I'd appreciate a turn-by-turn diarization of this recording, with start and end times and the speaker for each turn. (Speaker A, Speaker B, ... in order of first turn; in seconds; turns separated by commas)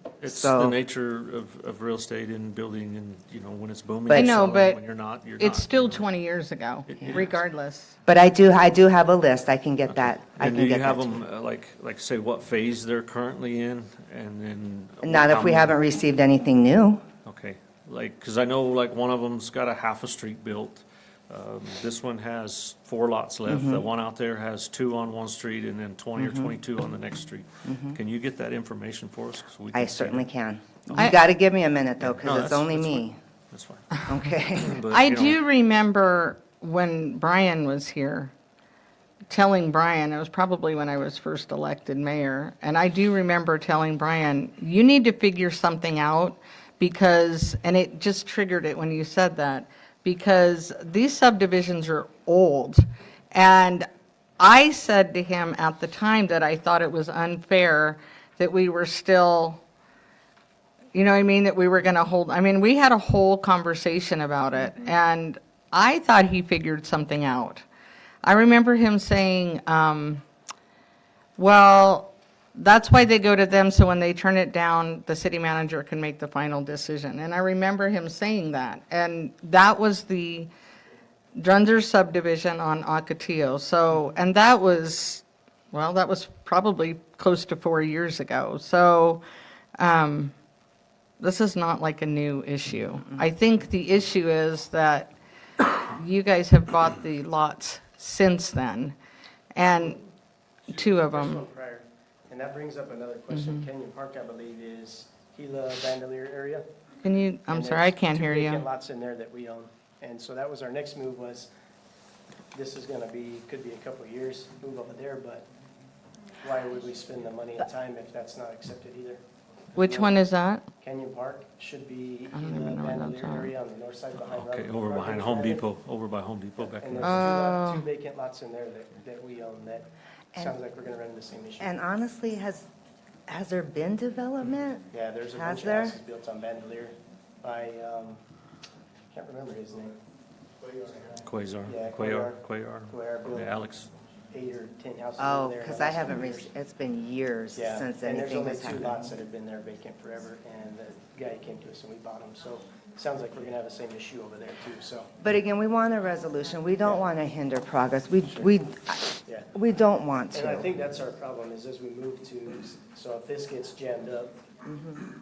Speaker A: 0.2-6.0, Speaker B: 0.2-0.7, Speaker B: 4.1-4.4, Speaker C: 4.1-4.8, Speaker C: 5.4-7.9, Speaker A: 6.9-7.4, Speaker B: 8.1-11.2, Speaker A: 9.8-15.7, Speaker B: 15.0-17.0, Speaker A: 17.2-30.2, Speaker B: 23.4-23.8, Speaker B: 26.2-26.5, Speaker B: 27.6-28.0, Speaker B: 29.7-33.2, Speaker A: 32.0-35.4, Speaker B: 34.1-34.7, Speaker C: 34.9-38.3, Speaker C: 39.3-52.8, Speaker C: 53.3-53.9, Speaker C: 54.4-59.6, Speaker C: 60.9-67.6, Speaker C: 68.2-70.2, Speaker C: 71.4-80.5, Speaker C: 81.3-89.2, Speaker C: 89.8-90.3, Speaker C: 91.2-98.9, Speaker C: 99.5-100.0, Speaker C: 100.7-101.4, Speaker D: 100.7-106.6, Speaker C: 103.3-103.6, Speaker C: 107.0-108.6, Speaker D: 107.5-111.5, Speaker D: 112.5-115.5, Speaker D: 116.4-119.2, Speaker C: 119.7-120.7, Speaker D: 119.8-120.2, Speaker D: 120.8-125.7, Speaker C: 122.3-123.5, Speaker A: 124.2-127.3, Speaker D: 126.6-131.7, Speaker C: 127.0-127.8, Speaker B: 131.6-132.7, Speaker B: 133.3-136.0, Speaker D: 134.9-138.2, Speaker D: 139.1-140.0, Speaker A: 141.2-143.9, Speaker D: 141.7-143.5, Speaker D: 144.3-146.5, Speaker B: 145.2-149.1, Speaker D: 147.6-155.1, Speaker B: 155.2-160.7, Speaker D: 160.3-164.4, Speaker B: 164.6-165.0